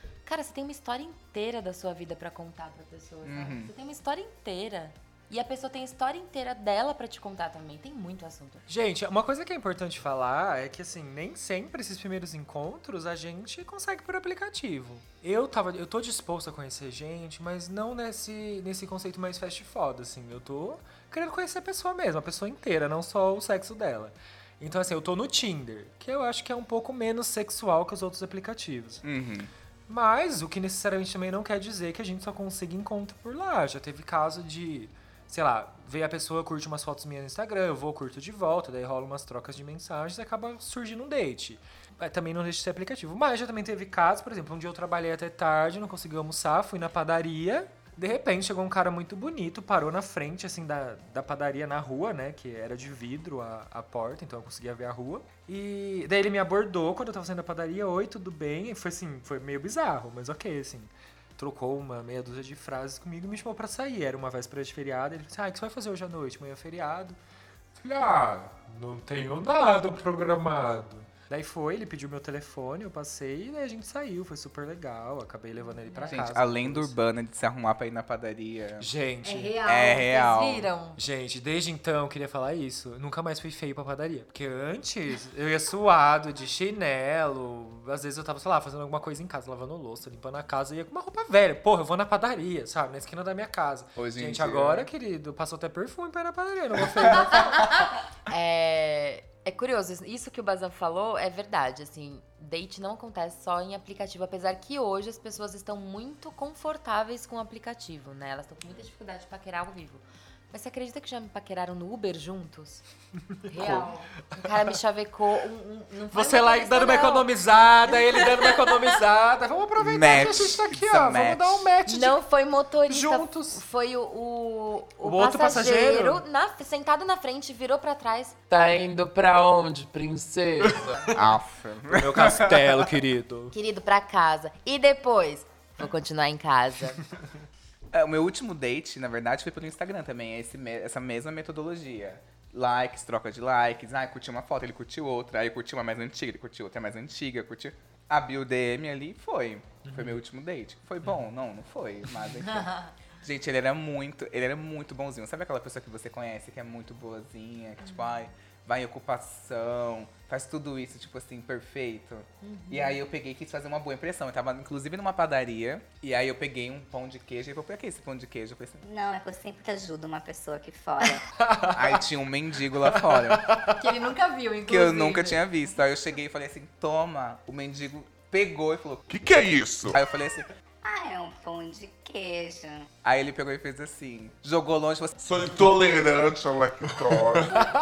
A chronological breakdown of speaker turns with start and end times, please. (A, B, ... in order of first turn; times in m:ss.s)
0:00.3-0:08.6 A
0:03.2-0:03.7 B
0:08.7-0:29.0 C
0:29.0-0:29.5 B
0:29.9-1:07.2 C
1:07.8-1:17.0 C
1:15.6-1:16.3 A
1:16.1-1:18.9 B
1:18.8-1:19.6 C
1:19.2-1:21.0 A
1:19.6-1:20.7 B
1:21.0-1:37.6 C
1:34.0-1:34.9 B
1:37.2-1:52.8 A
1:53.3-1:54.5 C
1:53.4-1:58.9 A
1:56.1-2:02.2 C
1:59.8-2:01.7 B
2:01.9-2:08.4 A
2:02.9-2:03.6 C
2:05.0-2:06.2 C
2:08.5-2:11.1 D
2:11.1-2:12.8 B
2:11.9-2:13.6 C
2:13.5-2:17.1 A
2:17.9-2:48.8 B
2:29.8-2:30.2 C
2:37.8-2:38.3 A
2:42.4-2:43.0 A
2:48.8-2:51.2 E
2:51.4-2:52.0 C
2:51.7-2:53.5 B
2:53.0-2:53.8 C
2:53.7-2:55.4 A
2:54.7-2:59.1 B
2:59.1-3:00.0 F
2:59.9-3:00.5 B
3:00.8-3:02.9 E
3:03.0-3:05.2 B
3:05.2-3:07.7 F